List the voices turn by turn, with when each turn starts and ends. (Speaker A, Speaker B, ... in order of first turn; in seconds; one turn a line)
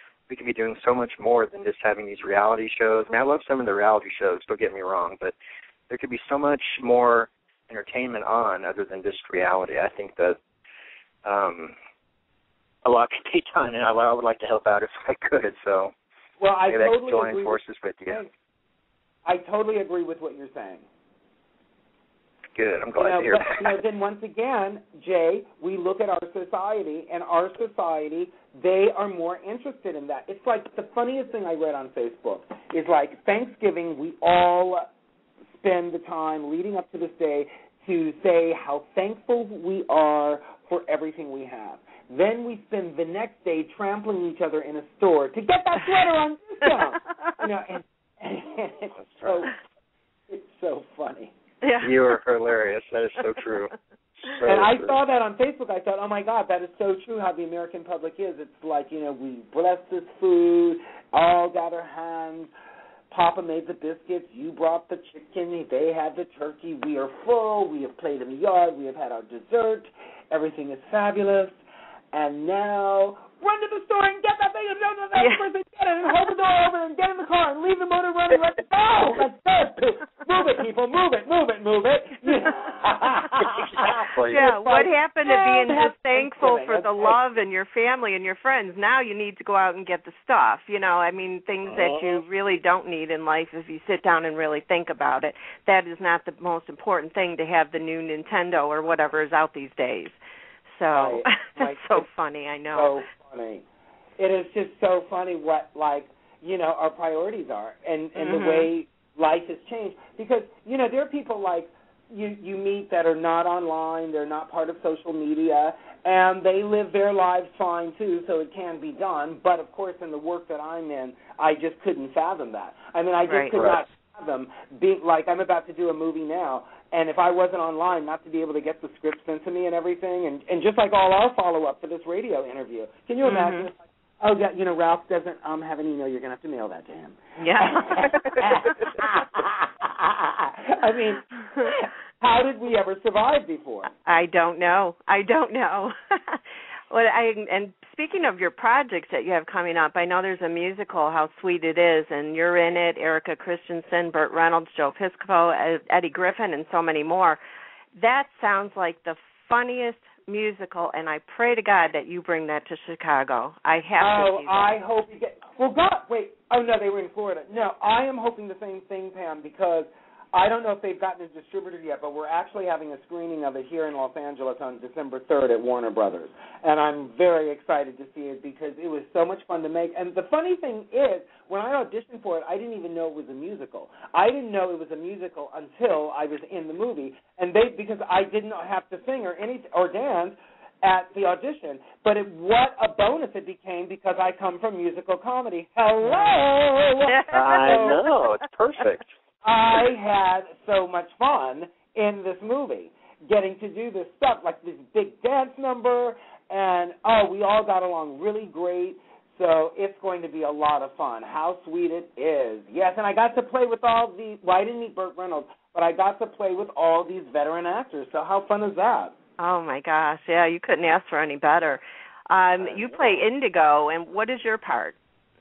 Speaker A: 0.3-5.3
Speaker A: 5.9-10.4
Speaker A: 11.2-11.8
Speaker A: 12.8-15.9
Speaker B: 16.4-18.3
Speaker A: 16.7-18.2
Speaker B: 19.2-20.9
Speaker A: 22.6-23.6
Speaker B: 23.0-34.9
Speaker B: 35.5-49.5
Speaker B: 50.3-51.3
Speaker C: 51.6-51.9
Speaker A: 51.8-55.0
Speaker B: 54.5-62.5
Speaker B: 63.1-71.6
Speaker B: 72.1-87.2
Speaker C: 75.2-75.5
Speaker A: 83.4-84.4
Speaker C: 84.3-100.2
Speaker A: 91.7-92.2
Speaker C: 100.7-103.0
Speaker B: 100.9-102.1
Speaker B: 102.7-103.7
Speaker B: 104.2-143.9
Speaker C: 108.2-108.7
Speaker C: 123.3-123.6
Speaker A: 123.5-123.8
Speaker C: 133.2-133.7
Speaker C: 137.4-138.8
Speaker C: 144.1-157.4
Speaker C: 158.0-164.8
Speaker B: 164.0-198.0
Speaker C: 196.0-196.4
Speaker C: 197.0-198.0
Speaker A: 197.3-199.1
Speaker B: 199.4-219.2
Speaker C: 219.4-225.0